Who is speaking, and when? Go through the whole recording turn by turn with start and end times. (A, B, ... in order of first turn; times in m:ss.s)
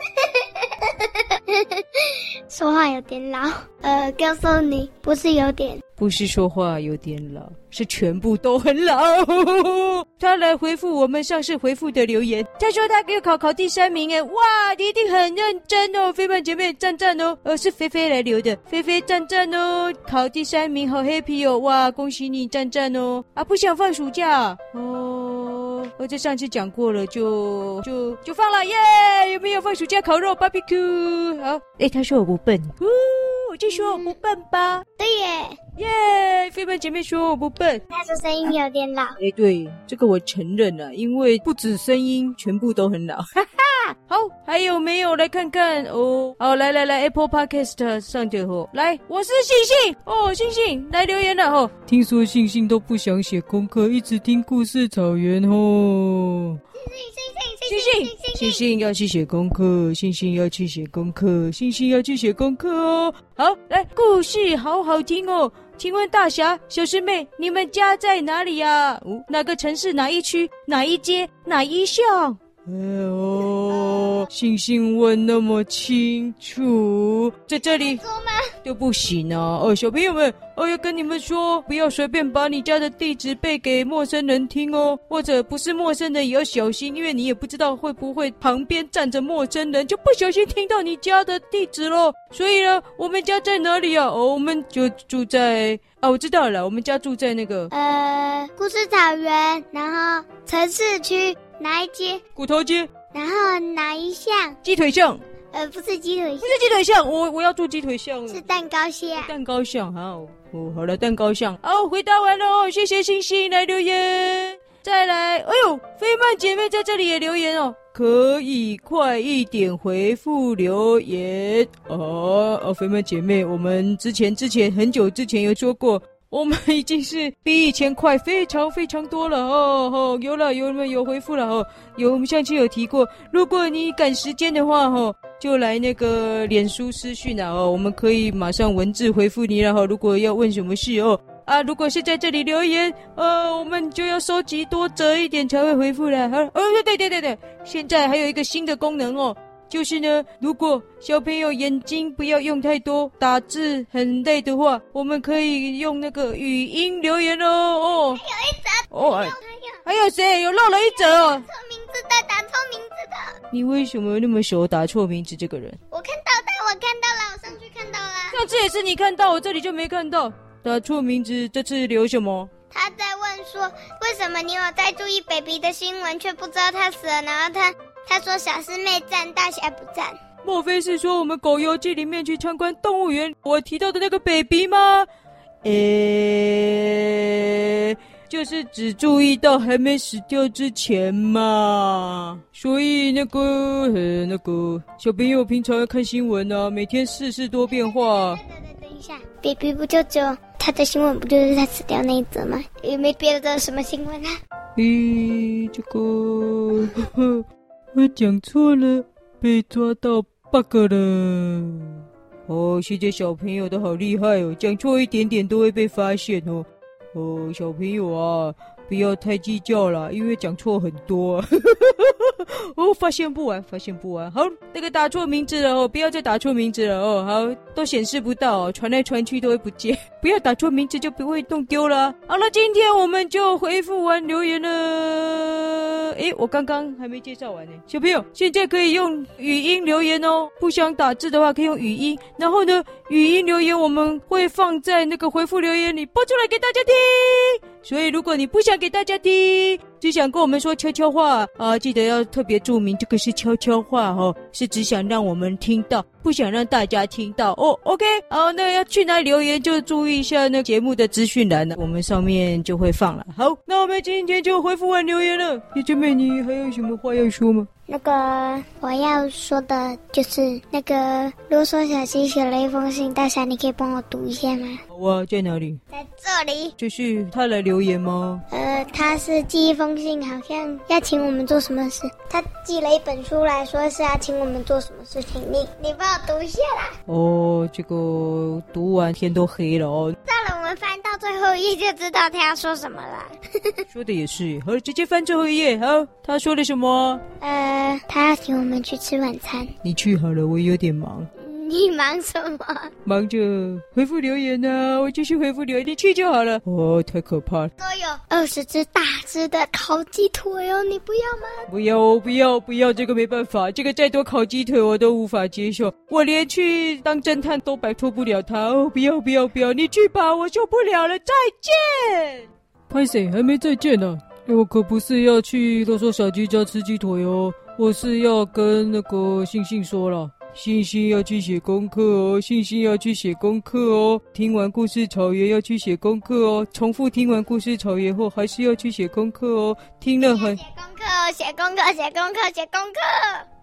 0:00.2-0:05.8 A
0:06.0-0:34.8 B
0:35.0-0:35.6 A
0:35.8-0:37.8 B
0:37.9-0:39.2 A
0:39.2-0:56.6 B
0:56.8-0:58.6 A
0:57.7-1:18.0 B
1:17.6-1:18.5 A
1:18.6-1:37.7 B
1:37.7-1:42.2 A
1:42.3-1:42.9 B
1:43.1-1:44.6 A
1:44.6-1:45.2 B
1:45.5-1:46.6 A
1:46.4-2:38.2 B
1:48.3-1:49.3 A
2:38.1-2:39.8 A
2:38.9-2:41.4 B
2:40.6-2:43.3 A
2:43.5-2:45.8 B
2:45.9-2:48.4 A
2:48.3-2:52.5 B
2:52.7-3:00.2 A
3:00.4-3:05.1 B
3:05.6-3:18.4 B
3:17.7-3:24.3 A
3:24.8-4:27.7 B
4:27.9-4:34.8 A
4:34.9-4:35.8 B
4:35.9-4:36.7 A
4:36.8-4:38.4 B
4:38.5-4:46.9 A
4:47.1-4:50.2 B
4:50.2-4:53.8 A
4:53.9-4:57.2 B
4:57.4-4:59.7 A
4:59.8-5:01.3 B
5:01.4-5:02.9 A
5:03.0-5:07.7 B
5:07.8-5:11.7 A
5:11.7-5:40.6 B
5:40.2-5:43.4 A